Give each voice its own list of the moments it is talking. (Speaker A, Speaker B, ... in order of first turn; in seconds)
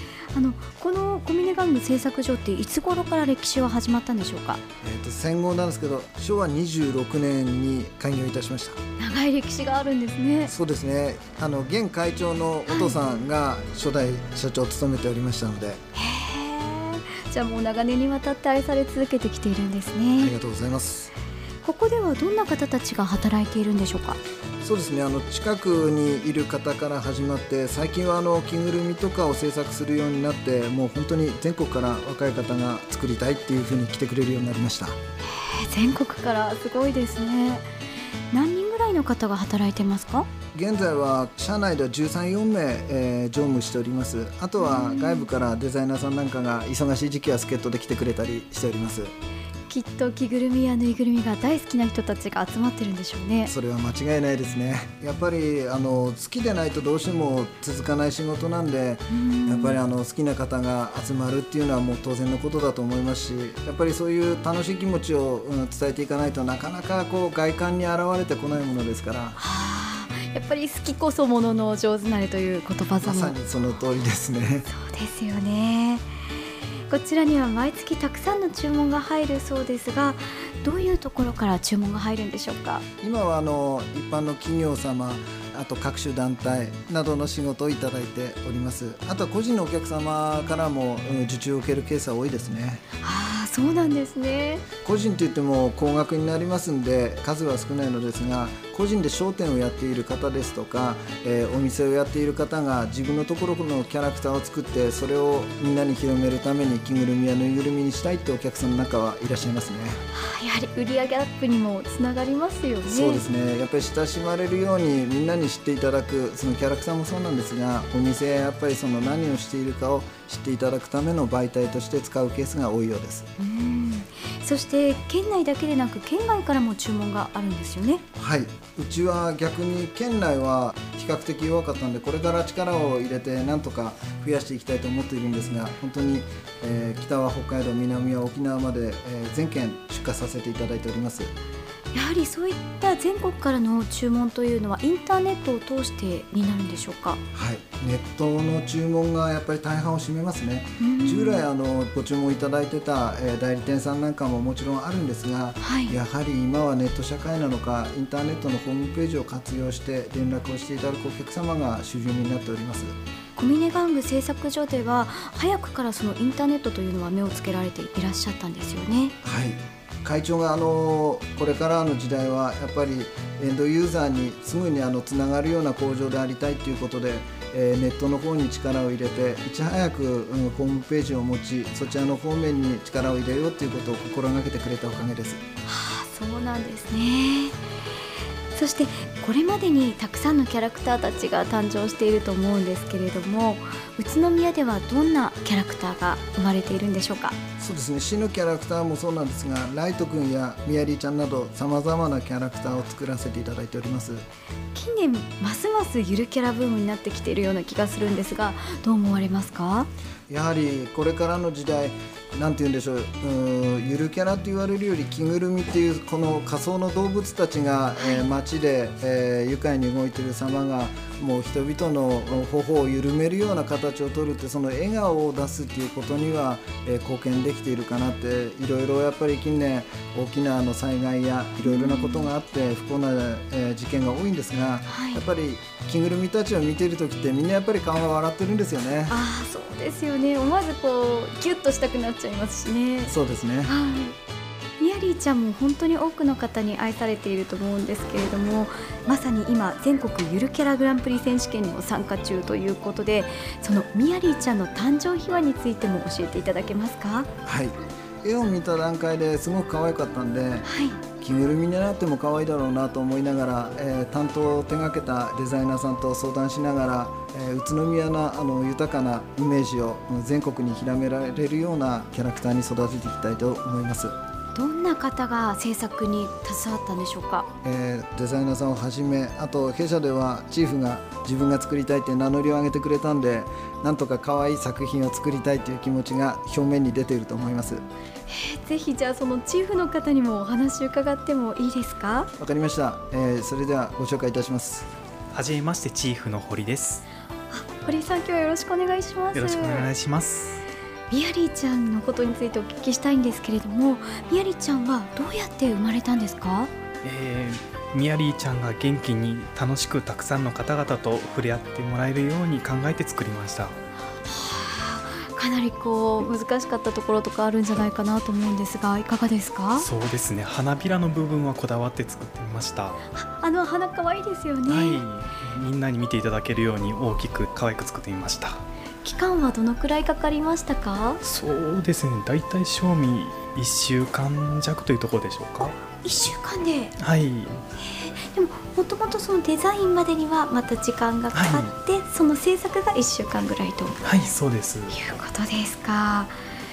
Speaker A: 0.3-4.6, 9.0-10.5, 12.7-13.0, 15.9-20.3, 21.6-24.2, 35.3-37.7, 38.3-40.3, 44.6-45.3, 49.7-53.5, 59.1-59.8, 69.3-73.4, 74.7-76.0, 76.9-82.8, 93.0-94.6, 110.1-113.2, 123.4-128.0, 141.9-147.2, 150.8-151.4, 155.6-156.0, 163.3-169.1, 185.7-187.6, 188.5-197.4, 204.7-209.9, 218.0-218.2, 231.6-232.3, 234.9-235.2, 239.1-243.1, 243.7-244.2, 244.8-257.3, 260.6-261.0, 274.5-277.5, 288.3-292.3, 297.5-299.9, 301.1-306.7, 314.2-319.9, 323.1-325.0, 329.0-331.2, 335.8-336.9, 337.8-344.1, 344.9-346.3
Speaker B: 4.8-8.8, 10.4-15.8, 20.2-21.1, 24.6-35.0, 40.5-49.1, 53.5-69.4, 73.0-74.7, 83.0-92.8, 94.8-110.0, 112.9-123.3, 128.2-141.3, 147.3-162.9, 169.2-185.4, 197.6-204.2, 210.3-239.2, 243.0-243.7, 257.4-260.7, 261.2-274.1, 277.6-287.8, 292.4-294.9
Speaker C: 295.3-297.0, 299.3-300.6, 307.0-313.8, 319.8-323.0, 324.7-328.6, 331.2-335.8, 337.0-337.6, 341.3-341.7, 344.0-345.0